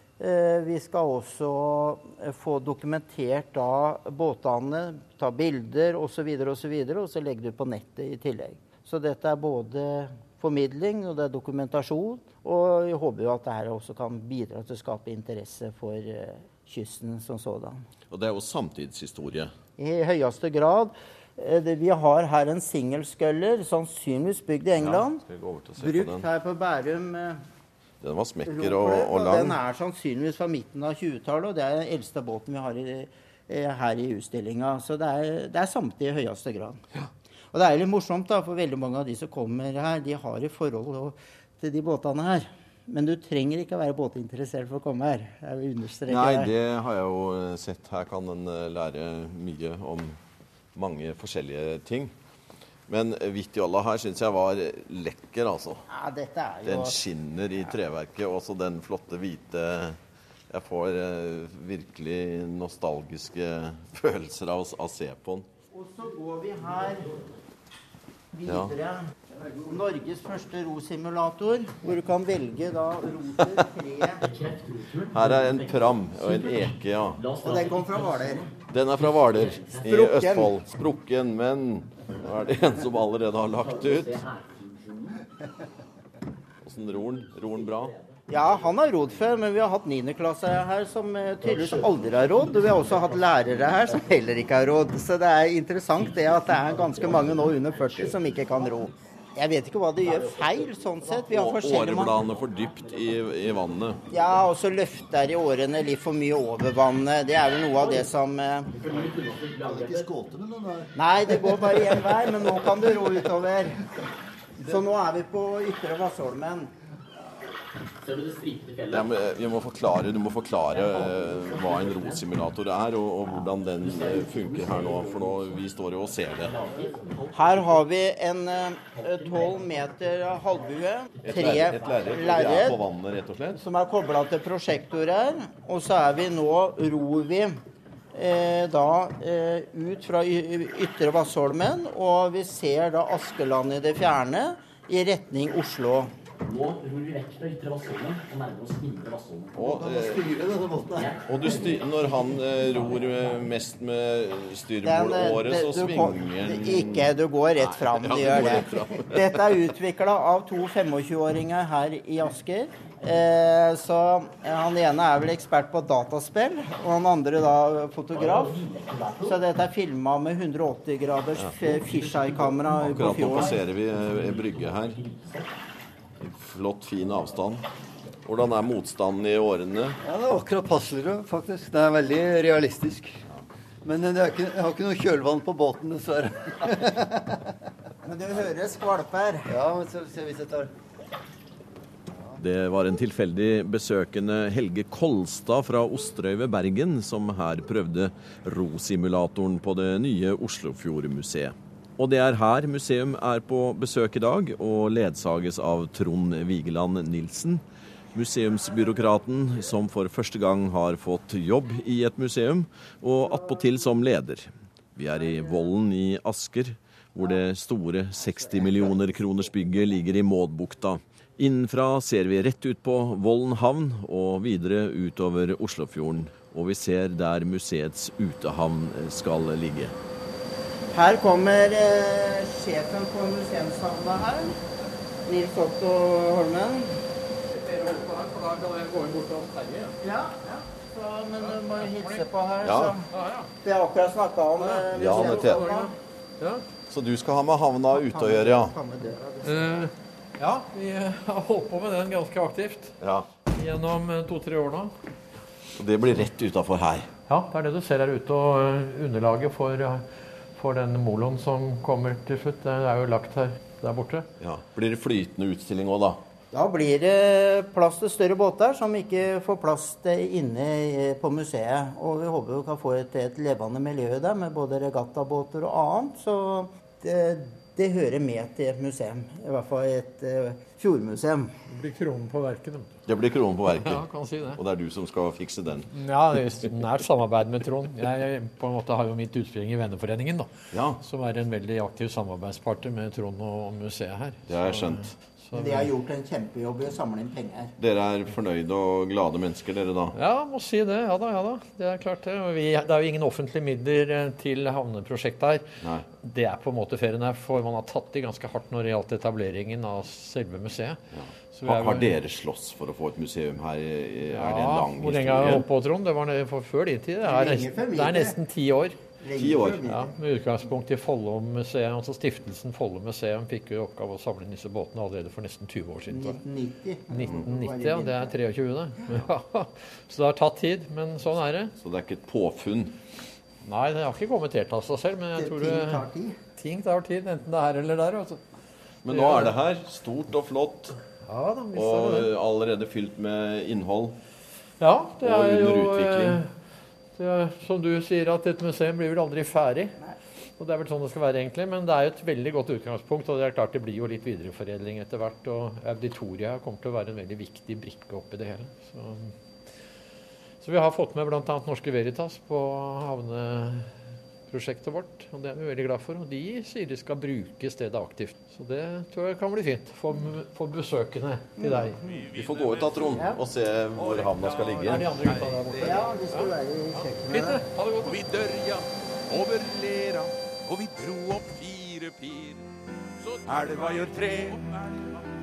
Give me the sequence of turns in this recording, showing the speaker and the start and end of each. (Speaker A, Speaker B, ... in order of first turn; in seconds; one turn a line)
Speaker A: 0.2-17.8
Speaker B: 18.1-19.5
Speaker A: 19.8-25.2
Speaker B: 24.8-26.3
Speaker A: 25.8-27.4
Speaker B: 28.0-29.6
Speaker A: 28.5-36.8
Speaker A: 37.5-46.5
Speaker B: 46.1-50.2
Speaker B: 50.7-52.1
Speaker B: 52.9-55.9
Speaker A: 55.9-57.0
Speaker B: 56.6-65.5
Speaker A: 65.7-67.1
Speaker A: 68.3-74.2
Speaker B: 68.5-68.8
Speaker C: 74.2-78.5
Speaker B: 75.1-77.2
Speaker A: 77.4-78.5
Speaker B: 78.7-84.2
Speaker C: 79.0-79.8
Speaker A: 79.8-80.5
Speaker C: 83.6-85.3
Speaker B: 86.6-88.0
Speaker C: 87.6-87.9
Speaker A: 88.3-102.2
Speaker C: 91.4-94.4
Speaker C: 96.0-98.7
Speaker C: 100.0-104.4
Speaker B: 101.3-104.0
Speaker A: 104.1-108.7
Speaker C: 108.7-110.4
Speaker D: 109.7-111.8
Speaker A: 111.0-113.9
Speaker A: 114.6-116.7
Speaker C: 118.0-119.2
Speaker B: 118.9-126.6
Speaker C: 120.7-122.3
Speaker C: 123.3-125.7
Speaker C: 126.3-127.8
Speaker A: 127.3-132.8
Speaker C: 128.9-130.0
Speaker C: 131.2-132.7
Speaker B: 131.2-133.6
Speaker A: 133.5-137.6
Speaker A: 138.1-146.1
Speaker C: 146.4-149.7
Speaker B: 149.6-150.3
Speaker D: 149.6-151.2
Speaker C: 150.9-153.5
Speaker B: 151.2-159.4
Speaker A: 154.8-168.6
Speaker C: 168.2-169.4
Speaker A: 169.2-173.6
Speaker C: 171.6-175.5
Speaker B: 172.8-175.0
Speaker B: 176.2-177.7
Speaker B: 178.2-180.0
Speaker D: 180.0-183.2
Speaker D: 183.8-187.4
Speaker A: 188.1-189.5
Speaker D: 189.5-190.7
Speaker B: 192.4-207.6
Speaker B: 208.1-229.9
Speaker A: 230.9-234.6
Speaker A: 235.3-237.0
Speaker E: 237.5-240.0
Speaker A: 240.0-243.1
Speaker E: 241.5-242.2
Speaker B: 242.6-242.9
Speaker E: 243.1-243.5
Speaker A: 243.6-245.9
Speaker E: 244.6-246.7
Speaker B: 244.9-245.6
Speaker B: 246.9-248.8
Speaker A: 247.9-249.7
Speaker E: 249.4-253.0
Speaker B: 253.0-253.3
Speaker E: 253.5-254.9
Speaker B: 255.8-257.1
Speaker E: 257.3-264.3
Speaker B: 264.4-266.2
Speaker A: 266.5-281.5
Speaker E: 281.7-282.9
Speaker B: 283.1-285.9
Speaker E: 283.7-284.6
Speaker E: 285.9-295.9
Speaker B: 290.7-291.0
Speaker B: 294.5-295.1
Speaker A: 295.5-297.7
Speaker B: 297.8-300.2
Speaker E: 300.1-311.0
Speaker B: 311.1-315.7
Speaker E: 311.5-312.2
Speaker E: 314.3-319.0
Speaker A: 317.2-318.4
Speaker A: 319.2-320.2
Speaker B: 319.4-319.9
Speaker E: 319.9-326.4
Speaker A: 326.1-328.4
Speaker E: 327.1-331.7
Speaker B: 331.8-333.0
Speaker E: 333.6-338.4
Speaker A: 335.4-336.4
Speaker B: 339.1-341.0
Speaker E: 339.1-339.5
Speaker E: 341.2-342.3
Speaker B: 341.7-344.2
Speaker E: 344.8-346.5
Speaker B: 345.2-346.4
Speaker E: 347.2-350.0
Speaker E: 350.6-359.4
Speaker E: 360.6-364.0
Speaker E: 364.5-372.0
Speaker A: 371.6-372.3
Speaker F: 372.0-373.4
Speaker B: 372.3-375.1
Speaker A: 373.1-373.4
Speaker F: 373.9-376.1
Speaker E: 374.8-378.2
Speaker A: 375.8-377.6
Speaker F: 378.0-382.6
Speaker F: 383.2-385.2